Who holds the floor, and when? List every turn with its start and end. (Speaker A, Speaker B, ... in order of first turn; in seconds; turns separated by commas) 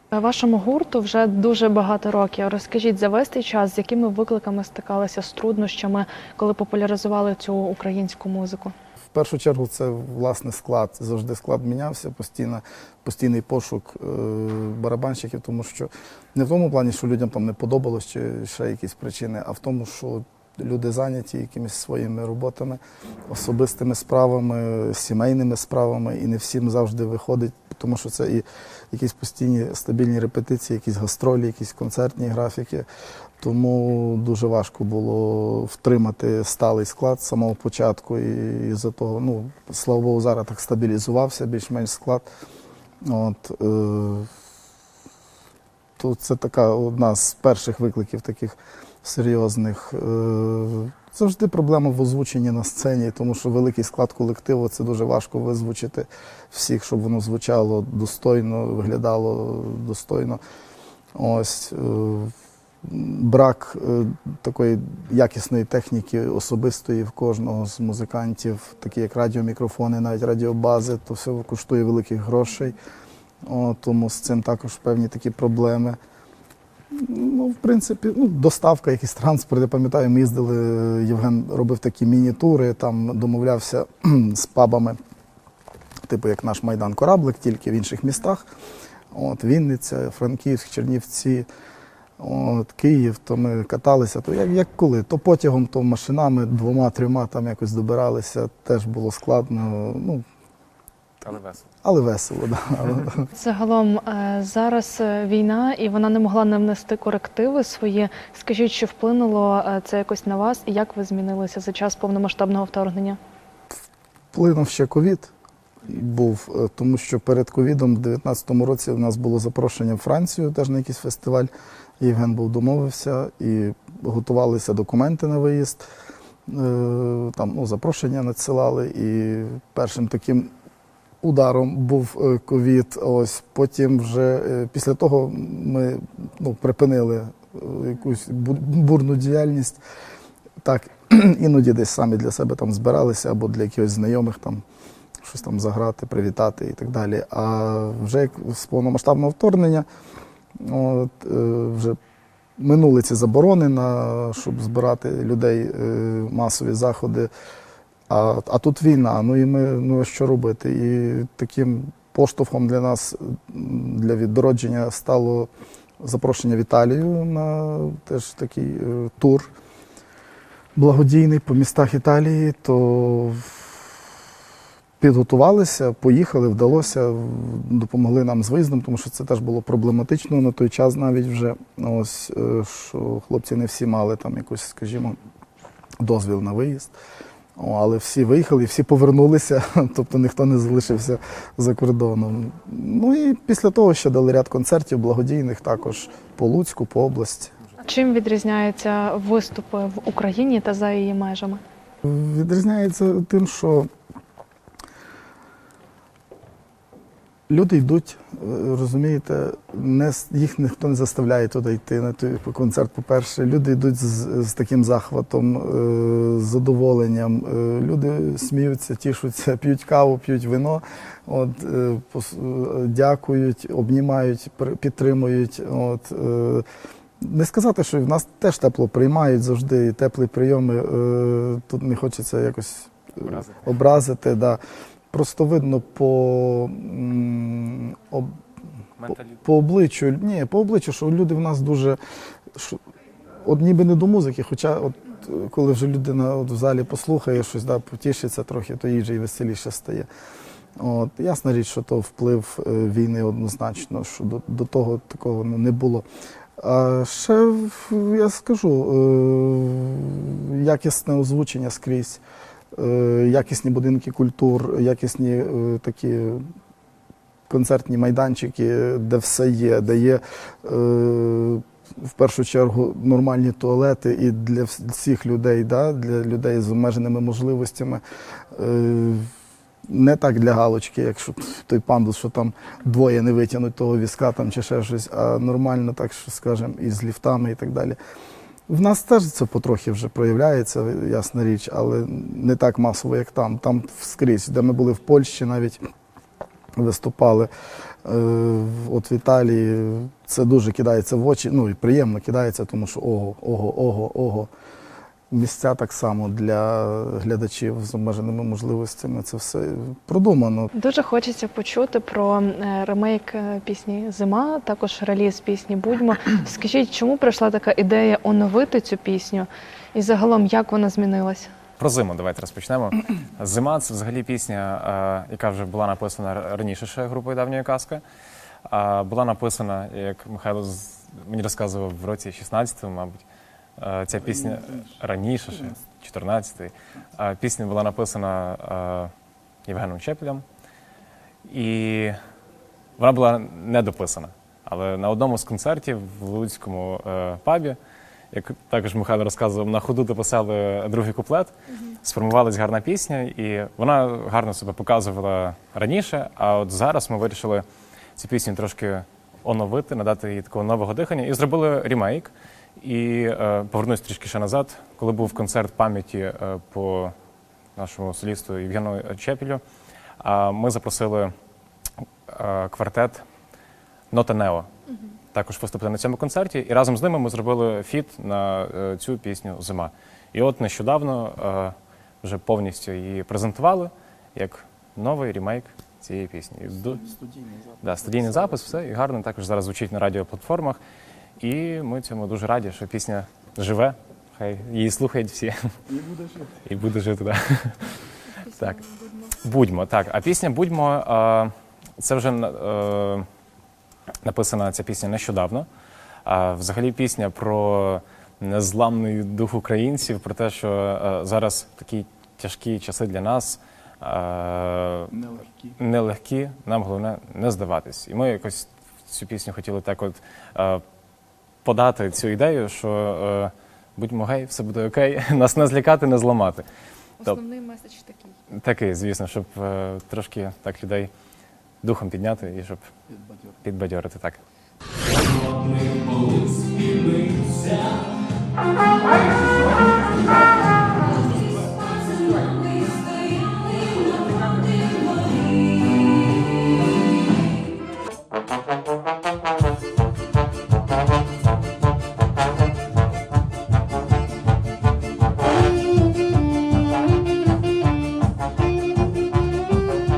Speaker A: 0.1-8.7, Speaker B: 9.1-32.9, Speaker B: 33.4-42.2, Speaker B: 43.0-44.3, Speaker B: 46.0-60.4, Speaker B: 61.1-72.8, Speaker B: 73.5-76.0, Speaker B: 76.9-85.0, Speaker B: 86.1-88.5, Speaker B: 89.1-91.5, Speaker B: 92.2-100.2, Speaker C: 101.2-101.6, Speaker B: 101.8-103.3, Speaker A: 103.4-113.2, Speaker B: 114.3-115.3, Speaker B: 115.8-125.8, Speaker B: 126.5-130.5, Speaker B: 131.2-139.8, Speaker B: 140.6-144.6, Speaker B: 145.2-149.8, Speaker B: 150.6-152.0, Speaker B: 152.6-157.3, Speaker B: 158.1-165.5, Speaker B: 166.0-169.5, Speaker B: 170.8-173.8, Speaker B: 175.0-185.2, Speaker B: 186.0-186.9, Speaker B: 187.6-197.5, Speaker A: 197.8-201.6, Speaker B: 202.0-203.9, Speaker B: 207.5-226.6, Speaker B: 227.2-234.6, Speaker C: 233.2-233.6, Speaker B: 235.1-238.3, Speaker C: 239.0-239.4, Speaker B: 239.4-242.0, Speaker B: 242.5-242.8, Speaker B: 243.4-250.1, Speaker B: 250.8-256.1, Speaker B: 256.6-262.2, Speaker B: 262.7-266.5, Speaker B: 267.5-278.0, Speaker B: 278.5-279.3, Speaker B: 279.9-288.0, Speaker B: 288.7-295.8, Speaker B: 296.8-297.5, Speaker B: 298.0-304.5, Speaker B: 305.3-310.7, Speaker A: 310.7-321.5, Speaker C: 321.8-328.0, Speaker C: 328.7-333.2, Speaker C: 333.8-339.1, Speaker B: 334.4-335.0, Speaker C: 339.7-340.4, Speaker C: 341.4-342.1, Speaker C: 343.0-347.8, Speaker C: 348.3-357.6, Speaker C: 358.2-367.1, Speaker C: 367.8-369.6, Speaker C: 370.2-371.3, Speaker C: 372.3-373.2, Speaker C: 374.1-374.7, Speaker C: 375.3-387.0, Speaker B: 386.8-388.8, Speaker C: 387.8-390.8, Speaker C: 391.4-395.7, Speaker B: 395.9-396.6, Speaker C: 396.6-403.2, Speaker C: 404.2-405.7, Speaker C: 406.2-415.1, Speaker B: 415.1-415.8, Speaker C: 415.8-420.8, Speaker C: 421.6-426.6, Speaker A: 427.4-428.3, Speaker C: 428.5-431.1, Speaker C: 431.8-432.9, Speaker B: 433.2-433.5, Speaker C: 433.6-434.4